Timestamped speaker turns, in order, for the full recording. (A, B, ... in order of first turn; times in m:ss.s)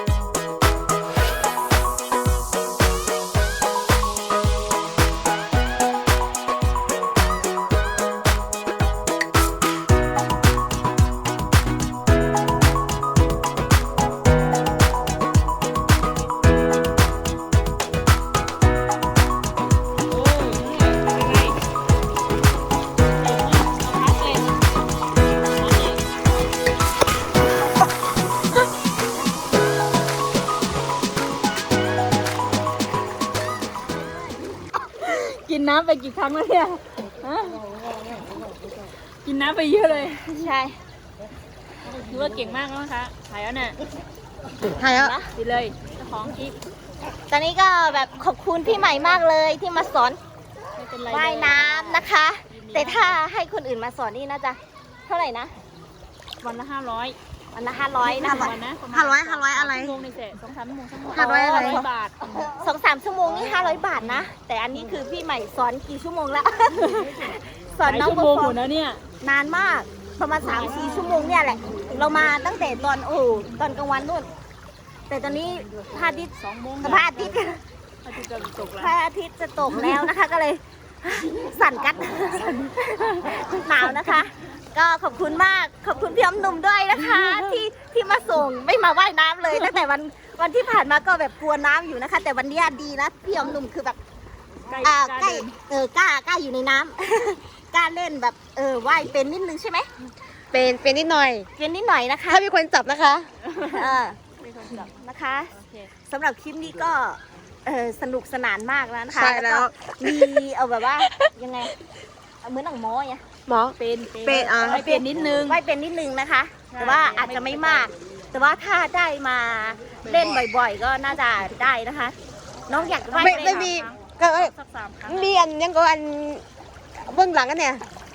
0:20.1-0:21.6 A
0:23.1-0:24.6 A
0:25.6-0:26.0 A
0:35.0-0:37.6 A
0:39.2-0:40.5 A
0:40.3-0:40.8 B
0:41.8-0:43.8 A
0:44.8-0:45.3 B
0:45.0-0:46.6 A
0:47.3-0:50.2 B
0:50.8-0:53.2 A
0:51.1-0:55.5 B
0:56.4-0:57.2 A
0:57.5-1:00.0 B
0:58.0-1:02.2 A
1:01.1-1:08.6 B
1:06.8-1:09.0 A
1:09.2-1:14.3 B
1:10.4-1:11.2 A
1:15.1-1:17.6 B
1:15.9-1:17.4 A
1:18.0-1:19.0 A
1:18.8-1:34.0 B
1:22.8-1:24.1 A
1:26.9-1:27.6 A
1:34.7-1:35.5 A
1:34.8-1:39.9 B
1:40.5-1:41.5 C
1:41.6-1:42.5 B
1:42.3-1:43.3 C
1:43.4-1:44.9 A
1:43.6-1:44.2 B
1:44.7-1:45.5 B
1:45.5-1:45.9 A
1:46.1-1:51.7 B
1:49.1-1:50.4 C
1:51.0-1:51.3 C
1:52.4-1:53.2 B
1:53.5-1:55.0 C
1:53.7-1:55.6 A
1:54.7-2:02.2 B
1:56.7-1:57.9 A
2:00.0-2:00.3 A
2:00.0-2:00.4 C
2:02.7-2:03.7 B
2:02.7-2:05.5 A
2:03.2-2:04.5 C
2:05.0-2:06.4 C
2:07.0-2:07.8 C